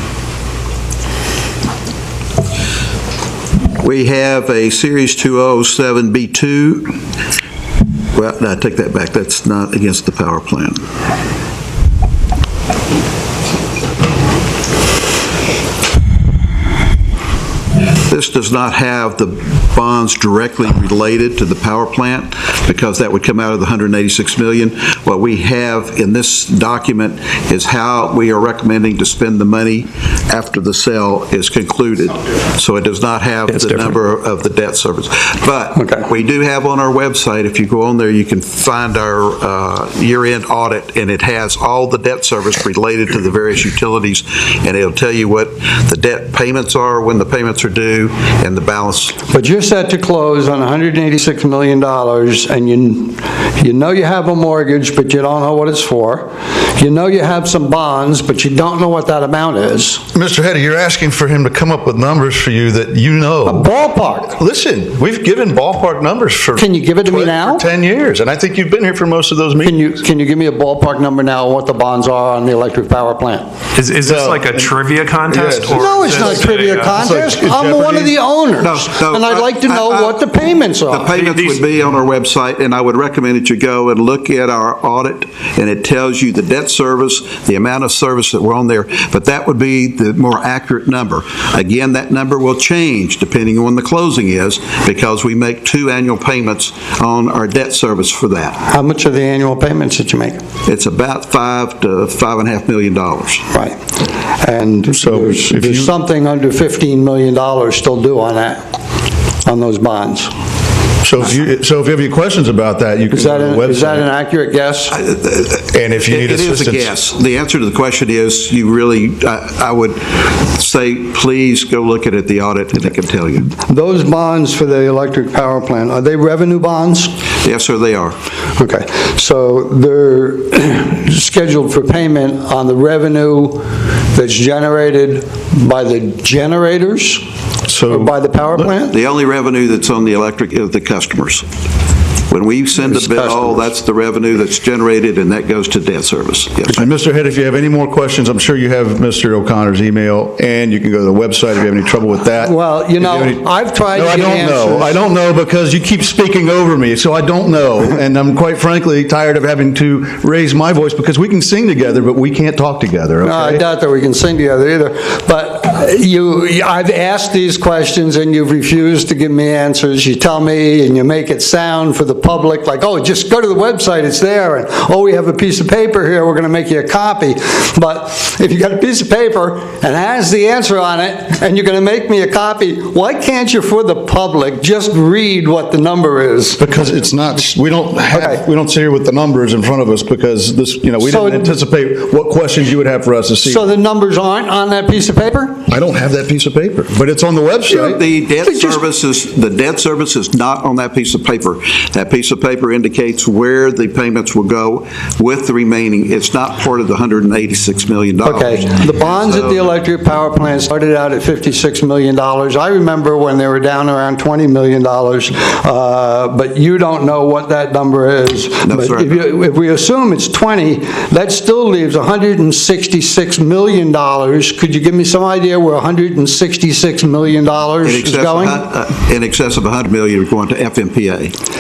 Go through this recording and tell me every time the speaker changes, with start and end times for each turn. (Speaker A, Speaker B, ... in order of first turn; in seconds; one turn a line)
Speaker A: 3.8-7.0
Speaker A: 8.1-10.8
Speaker A: 18.1-49.2
Speaker B: 33.5-34.0
Speaker C: 35.8-36.1
Speaker C: 49.3-60.0
Speaker D: 60.1-63.7
Speaker C: 63.5-64.4
Speaker D: 64.3-69.8
Speaker C: 66.6-67.7
Speaker C: 69.6-73.5
Speaker B: 73.8-77.0
Speaker D: 74.0-78.2
Speaker C: 75.7-81.1
Speaker A: 78.6-80.2
Speaker A: 80.9-98.6
Speaker B: 81.1-81.6
Speaker C: 98.7-100.4
Speaker A: 100.7-103.5
Speaker C: 103.5-103.8
Speaker C: 104.4-108.6
Speaker D: 104.9-105.9
Speaker C: 109.5-110.3
Speaker D: 111.0-114.1
Speaker C: 113.1-115.0
Speaker A: 115.0-123.5
Speaker D: 115.7-116.9
Speaker C: 123.6-127.1
Speaker A: 127.4-128.2
Speaker C: 128.6-137.2
Speaker D: 137.7-138.6
Speaker C: 137.9-139.0
Speaker A: 138.9-141.4
Speaker A: 142.3-146.8
Speaker C: 142.8-143.7
Speaker D: 146.7-163.6
Speaker C: 152.4-155.0
Speaker C: 163.2-186.6
Speaker D: 186.6-193.7
Speaker C: 188.1-188.4
Speaker C: 191.0-191.5
Speaker C: 193.4-195.6
Speaker D: 195.7-198.0
Speaker A: 197.8-209.7
Speaker C: 197.9-198.8
Speaker C: 208.2-228.6
Speaker A: 218.6-219.3
Speaker A: 227.8-231.3